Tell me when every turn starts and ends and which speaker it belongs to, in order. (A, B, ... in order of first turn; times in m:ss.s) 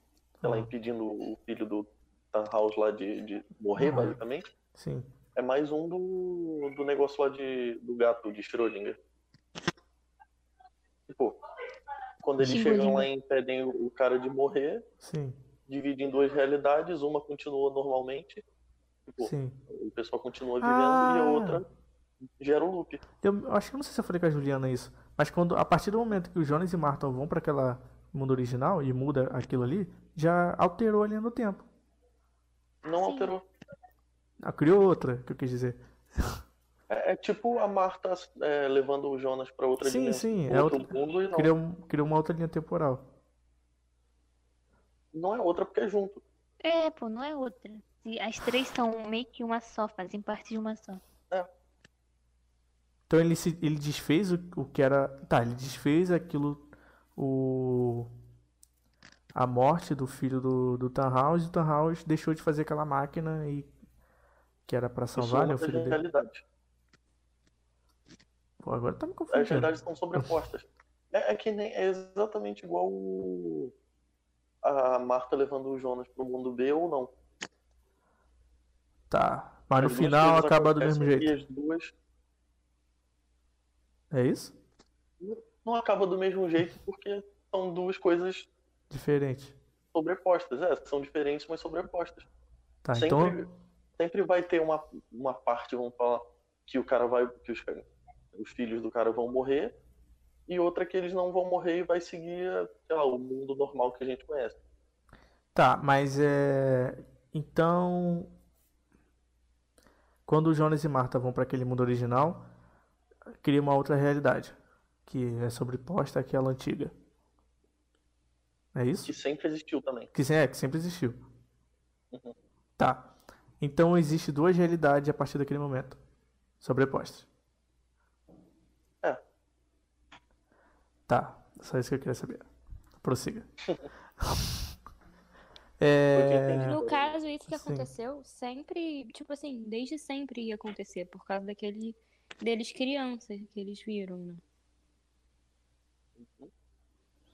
0:00.4-0:00.7 A
0:00.4-0:04.4 B
0:03.8-0:04.2 A
0:04.8-0:05.1 A
0:05.4-0:09.0 B
0:11.1-0:11.4 B
0:12.2-0:14.8 B
0:12.4-0:12.9 A
0:12.4-0:13.1 C
0:15.0-0:15.4 A
0:15.7-0:18.4 B
0:19.1-0:21.6 B
0:19.2-0:19.6 A
0:20.6-0:21.6 A
0:22.4-0:23.0 B
0:23.2-0:31.7 A
0:32.8-0:33.4 B
0:32.9-0:33.3 C
0:34.4-0:36.4 A
0:36.9-0:41.5 B
0:39.8-0:43.0 A
0:45.1-0:46.2 B
0:46.6-0:51.0 C
0:53.1-0:58.1 A
0:59.4-1:03.7 A
1:04.7-1:06.0 A
1:05.2-1:06.4 B
1:08.6-1:10.3 A
1:09.3-1:13.7 B
1:14.6-1:17.1 B
1:19.1-1:21.3 A
1:19.8-1:21.9 B
1:24.1-1:24.6 A
1:25.2-1:28.5 B
1:28.9-1:29.6 A
1:29.9-1:32.2 B
1:32.8-1:33.4 A
1:33.0-1:33.5 B
1:34.0-1:39.7 B
1:40.5-1:44.6 B
1:45.5-1:48.3 A
1:50.3-1:52.5 A
1:53.4-1:56.9 A
1:58.8-1:59.1 A
1:59.0-2:00.1 B
2:00.1-2:01.2 A
2:02.8-2:06.0 A
2:06.6-2:07.3 A
2:11.1-2:12.5 A
2:13.0-2:13.5 A
2:14.2-2:14.6 A
2:15.8-2:16.8 A
2:16.1-2:17.1 B
2:16.7-2:24.4 D
2:17.5-2:17.9 A
2:26.2-2:26.5 B